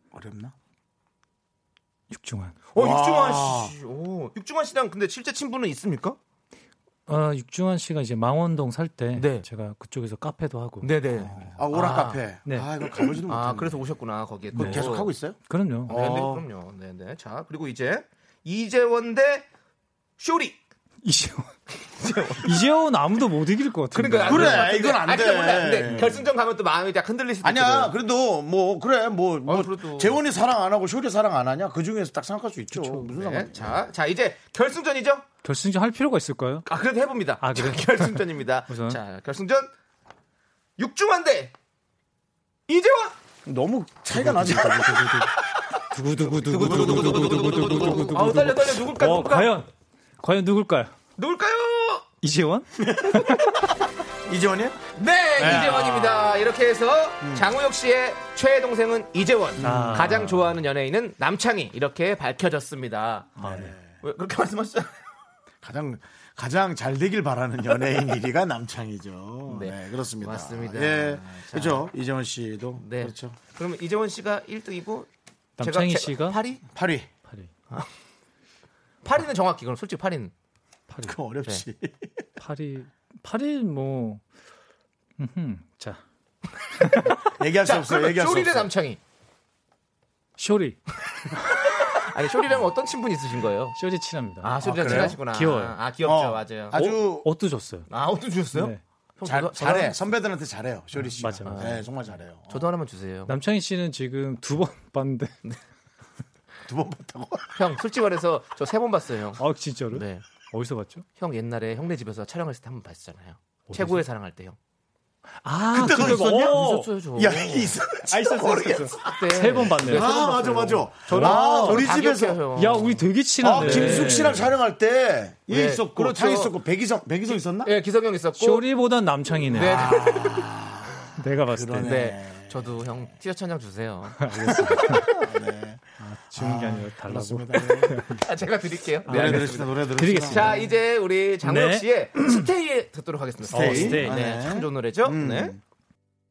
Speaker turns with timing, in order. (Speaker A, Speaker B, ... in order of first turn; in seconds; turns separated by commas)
Speaker A: 0.1-0.5, Speaker B: 2.1-2.6, Speaker C: 2.7-6.2, Speaker A: 2.8-3.7, Speaker B: 7.1-10.9, Speaker C: 9.1-9.4, Speaker C: 10.8-12.2, Speaker A: 11.2-13.9, Speaker B: 12.4-13.1, Speaker C: 13.3-15.1, Speaker B: 14.5-15.9, Speaker A: 14.5-16.4, Speaker C: 15.9-19.4, Speaker C: 20.2-20.6, Speaker B: 21.0-21.5, Speaker C: 22.0-22.6, Speaker B: 22.4-24.8, Speaker C: 23.9-27.9, Speaker A: 24.2-26.3, Speaker A: 27.4-33.8, Speaker C: 29.4-30.2, Speaker B: 32.7-33.1, Speaker C: 33.0-35.2, Speaker B: 35.4-36.6, Speaker C: 36.6-39.7, Speaker B: 37.4-39.0, Speaker C: 40.8-41.5, Speaker C: 42.7-43.1, Speaker A: 43.4-45.3, Speaker B: 44.1-49.7, Speaker C: 46.4-49.6, Speaker A: 46.5-47.9, Speaker B: 50.2-50.9, Speaker C: 51.2-52.0, Speaker B: 52.2-53.6, Speaker A: 52.8-53.7, Speaker A: 54.2-54.8, Speaker C: 54.9-63.4, Speaker A: 55.4-56.4, Speaker A: 57.2-57.5, Speaker A: 59.6-60.3, Speaker B: 59.6-60.6, Speaker B: 63.4-63.7, Speaker A: 63.4-63.8, Speaker C: 64.0-65.0, Speaker A: 65.6-73.4, Speaker C: 69.5-71.9, Speaker C: 72.8-75.1, Speaker B: 75.6-76.4, Speaker C: 75.6-76.6, Speaker A: 76.7-77.1, Speaker C: 79.0-80.3, Speaker B: 80.9-81.2, Speaker A: 81.0-82.2, Speaker B: 82.4-84.2, Speaker B: 85.2-86.0, Speaker B: 86.8-87.1, Speaker C: 86.8-89.0, Speaker A: 87.2-88.7, Speaker B: 90.4-91.5, Speaker C: 91.6-93.8, Speaker B: 93.8-95.8, Speaker C: 94.4-96.8, Speaker A: 94.6-95.2, Speaker A: 96.0-97.3, Speaker B: 96.7-97.9, Speaker C: 97.9-100.0, Speaker B: 98.5-98.8, Speaker A: 99.2-102.6, Speaker B: 101.0-101.9, Speaker C: 101.4-101.8, Speaker C: 102.5-103.3, Speaker B: 103.3-105.3, Speaker A: 106.7-107.6, Speaker C: 107.5-110.2, Speaker B: 109.4-111.0, Speaker C: 111.2-114.6, Speaker B: 113.7-114.0, Speaker B: 115.4-117.0, Speaker A: 115.7-122.4, Speaker C: 115.8-117.8, Speaker B: 118.0-120.5, Speaker C: 119.0-124.4, Speaker B: 121.1-122.0, Speaker B: 122.5-124.5, Speaker A: 123.4-127.7, Speaker C: 125.5-126.5, Speaker C: 127.3-128.7, Speaker B: 128.3-130.3, Speaker C: 129.5-130.3, Speaker A: 129.5-132.8, Speaker B: 131.2-132.0, Speaker C: 131.8-135.0, Speaker B: 134.2-135.2, Speaker A: 134.5-138.2, Speaker B: 136.0-138.2, Speaker C: 138.1-145.5, Speaker A: 139.1-140.6, Speaker B: 139.1-140.7, Speaker B: 141.4-142.4, Speaker B: 143.5-144.3, Speaker A: 143.5-145.6